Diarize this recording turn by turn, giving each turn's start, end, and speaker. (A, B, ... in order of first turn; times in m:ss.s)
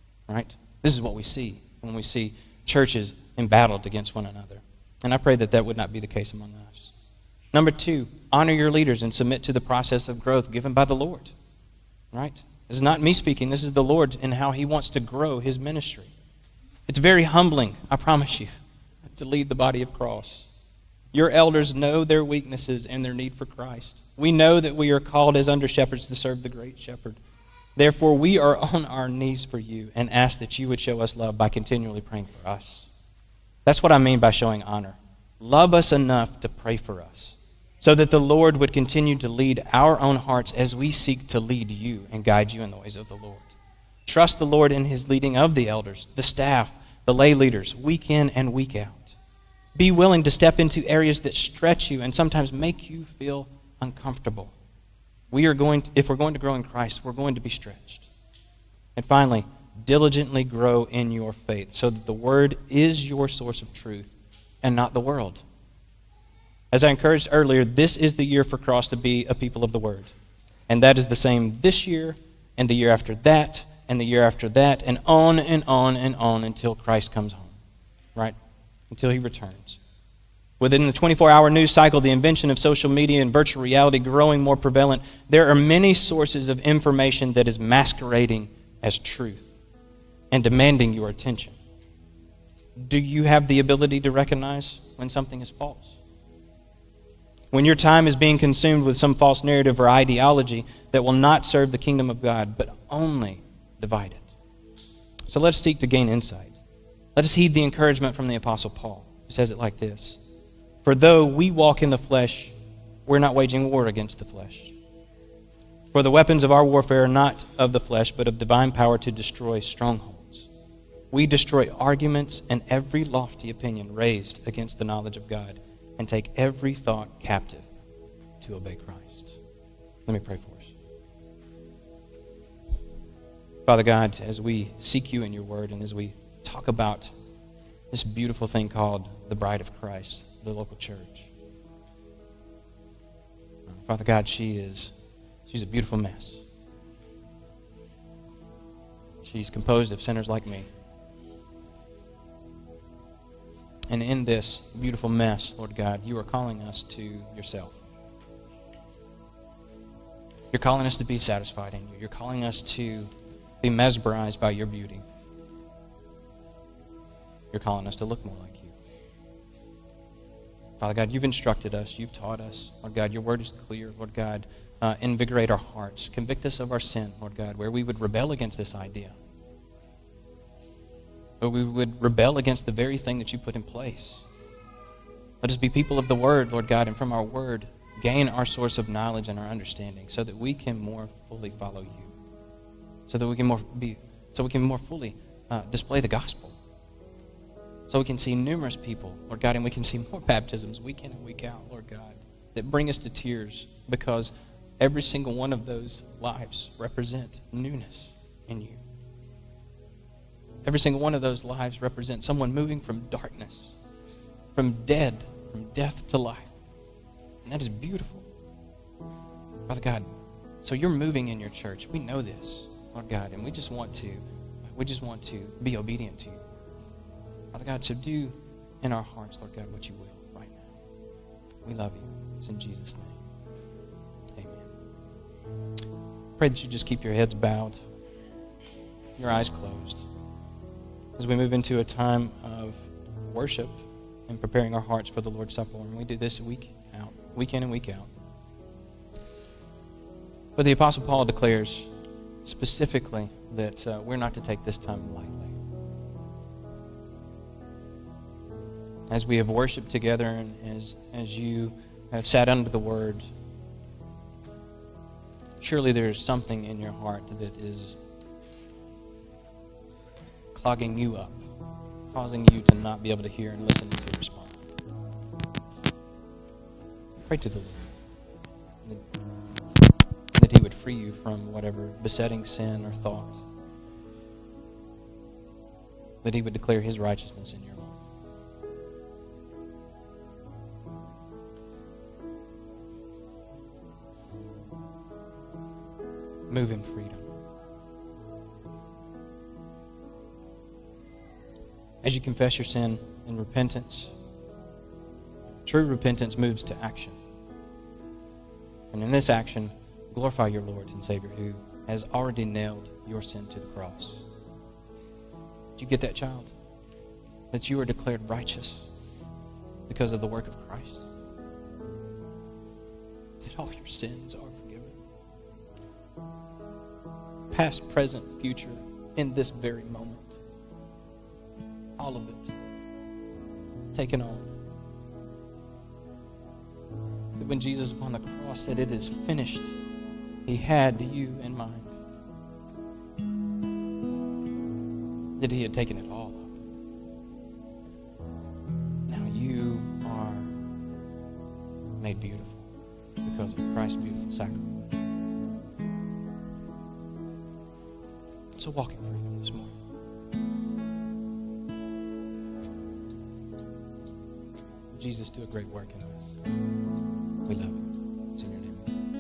0:00.3-0:06.9 A
0:07.5-0:11.3 A
0:12.1-0:16.1 A
0:16.9-0:18.5 A
0:19.1-0:20.5 A
0:21.1-0:27.2 A
0:27.8-0:32.9 A
0:33.7-0:43.5 A
0:44.1-0:49.2 A
0:49.8-0:54.5 A
0:55.3-0:58.1 A
0:59.0-1:05.4 A
1:06.7-1:10.1 A
1:10.7-1:17.6 A
1:18.9-1:19.8 A
1:20.6-1:29.5 A
1:30.3-1:31.6 A
1:32.8-1:36.0 A
1:37.5-1:44.3 A
1:45.3-1:46.6 A
1:47.2-1:50.2 A
1:50.8-1:52.5 A
1:53.1-1:54.7 A
1:55.9-2:00.5 A
2:01.1-2:07.7 A
2:08.4-2:09.4 A
2:10.1-2:10.7 A
2:13.7-2:17.1 A
2:17.9-2:21.3 A
2:23.7-2:25.0 A
2:25.5-2:26.4 A
2:29.2-2:30.7 A
2:33.9-2:37.8 A
2:40.5-2:43.1 A
2:43.6-2:45.0 A
2:47.5-2:48.7 A
2:50.8-2:59.2 A
3:01.4-3:04.2 A
3:05.4-3:12.1 A
3:13.1-3:16.6 A
3:17.9-3:28.8 A
3:30.6-3:33.8 A
3:34.6-3:36.5 A
3:37.4-3:38.3 A
3:39.7-3:40.1 A
3:40.6-3:46.5 A
3:47.5-3:50.8 A
3:51.6-3:53.2 A
3:54.4-3:54.7 A
3:56.4-3:57.8 A
3:59.2-4:00.1 A
4:01.2-4:03.8 A
4:04.3-4:08.1 A
4:10.6-4:11.9 A
4:12.4-4:15.6 A
4:19.1-4:23.3 A
4:25.6-4:28.0 A
4:30.5-4:31.4 A
4:32.1-4:34.7 A
4:37.3-4:37.8 A
4:40.3-4:43.4 A
4:46.2-4:48.0 A
4:56.5-4:57.3 A
5:02.0-5:04.1 A
5:05.7-5:07.2 A
5:08.9-5:14.2 A
5:15.8-5:16.5 A
5:17.5-5:18.9 A
5:19.9-5:21.1 A
5:23.4-5:25.0 A
5:27.5-5:30.4 A
5:32.0-5:32.5 A
5:33.9-5:34.5 A
5:37.4-5:39.7 A
5:40.5-5:42.0 A
5:45.4-5:46.6 A
5:49.1-5:50.5 A
5:52.0-5:52.7 A
5:53.2-5:54.8 A
5:58.6-5:59.8 A
6:04.9-6:06.2 A
6:07.5-6:08.9 A